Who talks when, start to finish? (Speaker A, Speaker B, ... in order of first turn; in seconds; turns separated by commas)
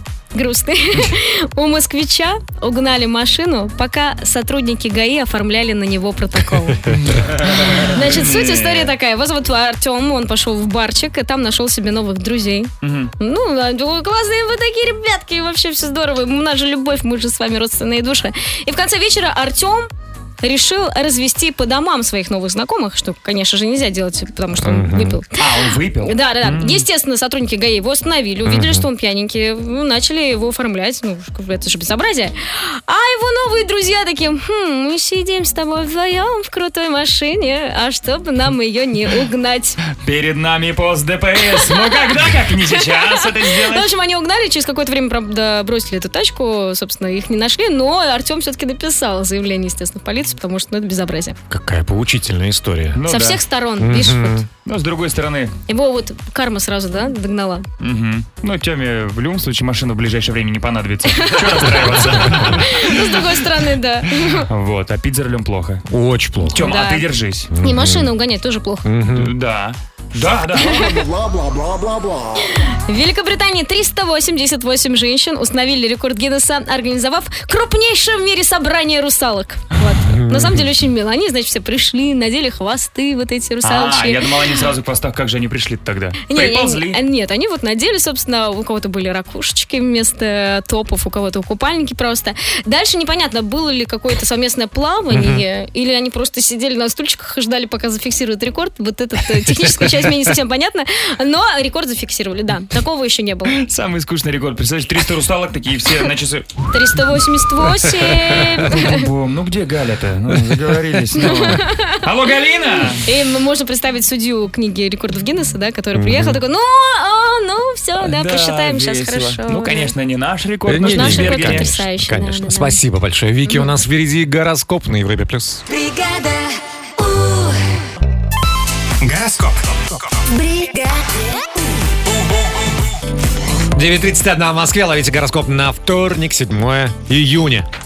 Speaker A: 0.3-6.8, Speaker B: 7.0-8.9, Speaker A: 7.7-19.9, Speaker B: 12.8-13.1, Speaker A: 20.4-25.4, Speaker C: 24.6-25.2, Speaker B: 25.4-26.9, Speaker A: 26.1-39.8, Speaker C: 28.4-28.9, Speaker B: 40.0-43.9, Speaker A: 41.6-42.2, Speaker A: 42.7-51.4, Speaker C: 51.5-53.0, Speaker B: 53.0-53.4, Speaker A: 53.1-54.4, Speaker C: 53.8-54.5, Speaker B: 54.6-55.5, Speaker A: 55.7-57.7, Speaker B: 57.8-63.3, Speaker A: 61.1-61.7, Speaker A: 62.2-64.5, Speaker B: 64.4-65.8, Speaker C: 65.9-66.7, Speaker B: 66.5-67.5, Speaker A: 66.6-67.0, Speaker C: 67.5-68.1, Speaker A: 67.6-68.9, Speaker C: 68.8-69.3, Speaker B: 69.1-71.0, Speaker A: 70.6-71.1, Speaker A: 72.9-84.3, Speaker C: 80.1-80.7, Speaker B: 83.6-87.0, Speaker A: 86.3-103.6, Speaker C: 95.1-95.4, Speaker B: 103.6-106.6, Speaker A: 106.7-109.1, Speaker B: 108.6-113.0, Speaker A: 111.2-111.9, Speaker A: 113.0-119.9, Speaker C: 115.9-116.4, Speaker B: 118.0-121.7, Speaker C: 120.7-125.6, Speaker A: 120.8-122.8, Speaker A: 123.5-123.8, Speaker D: 125.7-127.6, Speaker D: 130.3-130.9, Speaker C: 133.7-137.7